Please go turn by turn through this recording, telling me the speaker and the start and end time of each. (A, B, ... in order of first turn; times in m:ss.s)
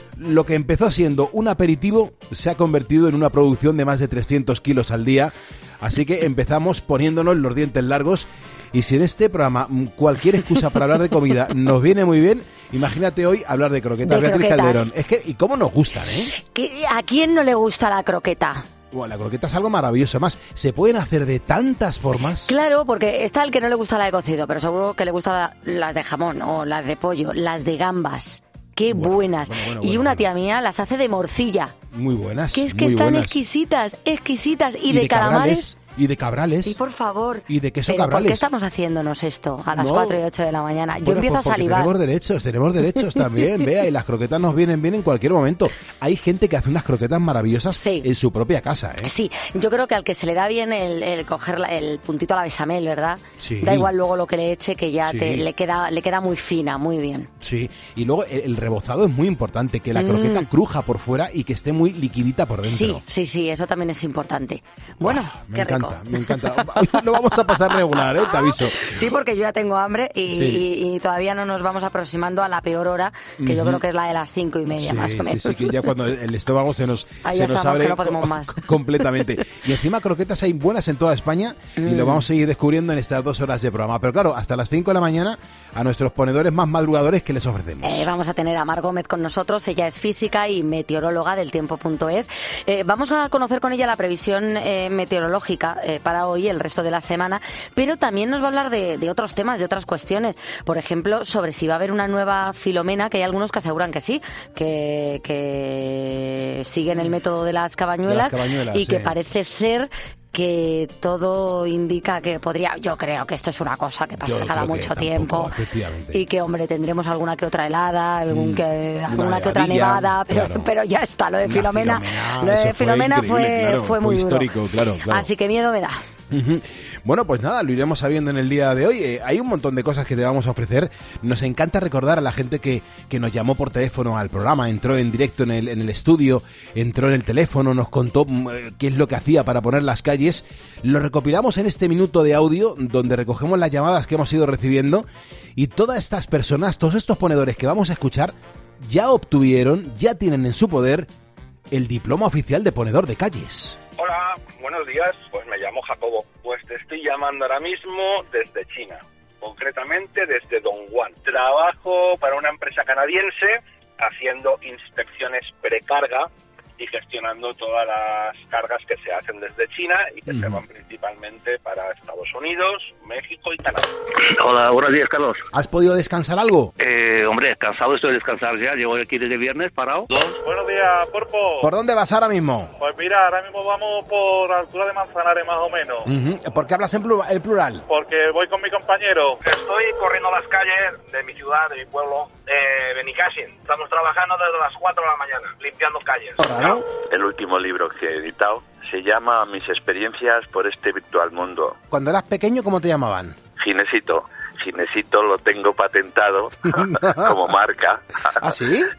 0:00.2-0:16.3 A
0:14.0-0:14.9 B
0:16.3-0:18.6 B
0:18.9-0:22.5 A
0:22.5-0:31.7 B
0:28.9-0:30.2 A
0:31.9-0:33.4 A
0:32.5-0:35.7 B
0:34.9-0:36.8 A
0:36.6-0:41.9 B
0:37.5-0:38.4 A
0:39.7-0:40.2 A
0:41.0-0:49.1 A
0:47.7-0:48.1 B
0:49.0-0:57.3 B
0:53.4-0:53.9 A
0:55.0-0:55.4 A
0:57.4-1:03.0 A
0:59.9-1:00.5 B
1:02.6-1:15.8 B
1:05.0-1:09.0 A
1:10.3-1:10.6 A
1:13.4-1:13.8 A
1:14.8-1:28.1 A
1:17.2-1:18.6 B
1:21.8-1:22.2 B
1:27.8-1:55.5 B
1:48.0-1:49.1 A
1:54.2-1:56.2 A
1:56.1-2:04.5 B
1:58.3-2:00.7 A
2:01.4-2:05.3 A
2:05.0-2:06.1 B
2:06.3-2:31.1 A
2:31.7-2:33.8 A
2:34.0-2:53.9 C
2:50.3-2:50.6 A
2:54.2-2:55.4 D
2:55.5-2:56.7 A
2:56.8-3:00.3 D
3:00.4-3:01.7 E
3:01.6-3:02.7 A
3:02.8-3:06.1 E
3:06.0-3:07.8 A
3:07.9-3:09.4 E
3:09.4-3:16.7 C
3:16.4-3:16.8 A
3:17.1-3:21.8 F
3:21.9-3:23.4 A
3:23.6-3:28.3 F
3:26.8-3:27.3 A
3:28.4-3:28.9 A